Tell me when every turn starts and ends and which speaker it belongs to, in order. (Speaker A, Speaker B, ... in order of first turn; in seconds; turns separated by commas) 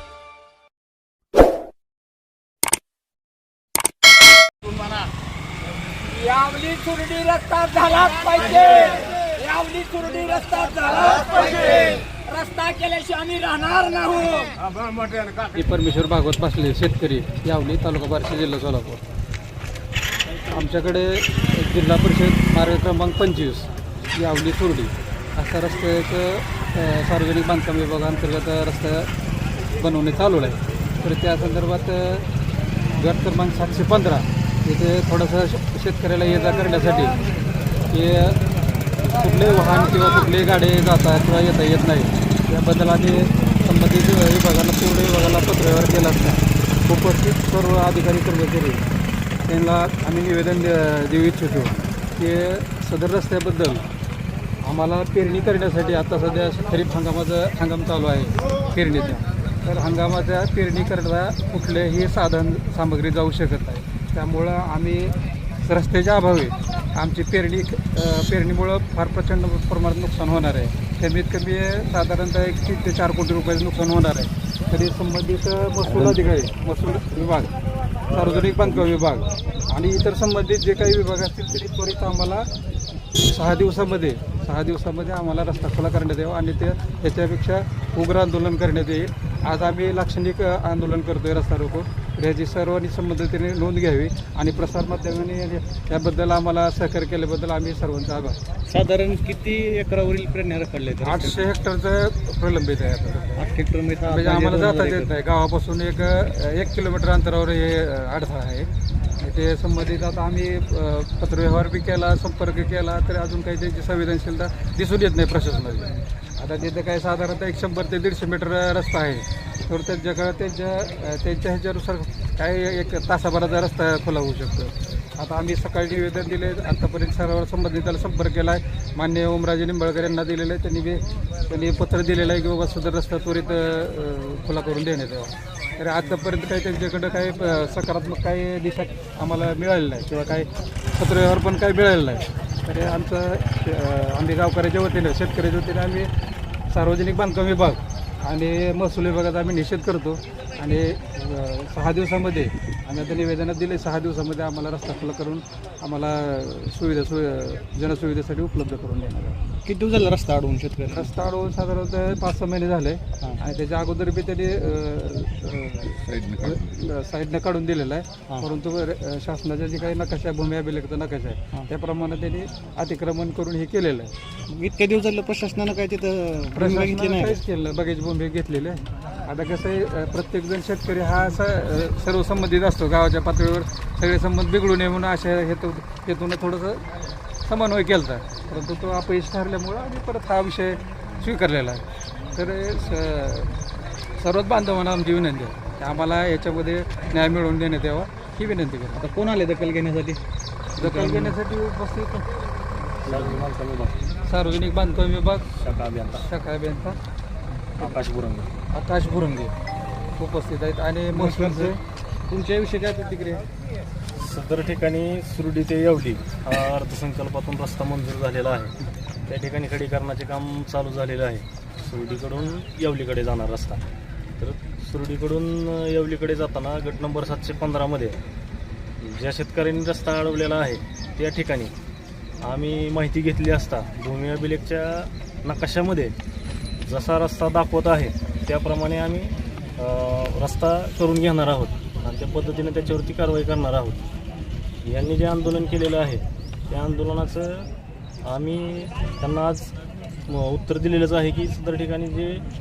Speaker A: 6.1-14.6, Speaker B: 15.5-19.1, Speaker B: 20.5-29.1, Speaker B: 29.8-32.3, Speaker B: 33.0-37.1, Speaker B: 37.9-38.4, Speaker B: 39.0-48.8, Speaker B: 49.5-53.8, Speaker B: 54.6-77.5, Speaker B: 78.1-82.5, Speaker B: 83.2-98.4, Speaker C: 98.7-101.5, Speaker B: 101.0-103.4, Speaker C: 103.4-105.1, Speaker B: 104.1-146.1, Speaker B: 146.7-159.4, Speaker C: 159.6-161.1, Speaker B: 160.9-174.1, Speaker C: 174.5-177.4, Speaker B: 176.5-186.8, Speaker B: 187.4-191.8, Speaker B: 192.3-193.6, Speaker B: 194.2-199.0, Speaker C: 198.9-200.2, Speaker B: 200.8-202.3, Speaker C: 200.8-201.3, Speaker D: 203.0-203.9, Speaker C: 203.0-203.8, Speaker B: 204.2-205.5, Speaker D: 205.6-206.2, Speaker B: 206.2-207.0, Speaker D: 207.8-208.5, Speaker B: 208.7-209.5, Speaker B: 210.2-211.8, Speaker C: 211.1-211.8, Speaker C: 212.3-213.4, Speaker D: 214.2-218.7, Speaker D: 219.3-223.8, Speaker D: 224.4-228.2, Speaker D: 229.0-231.7, Speaker D: 232.4-236.1, Speaker D: 236.8-244.0, Speaker D: 244.8-247.7, Speaker D: 248.2-249.7, Speaker D: 250.3-252.4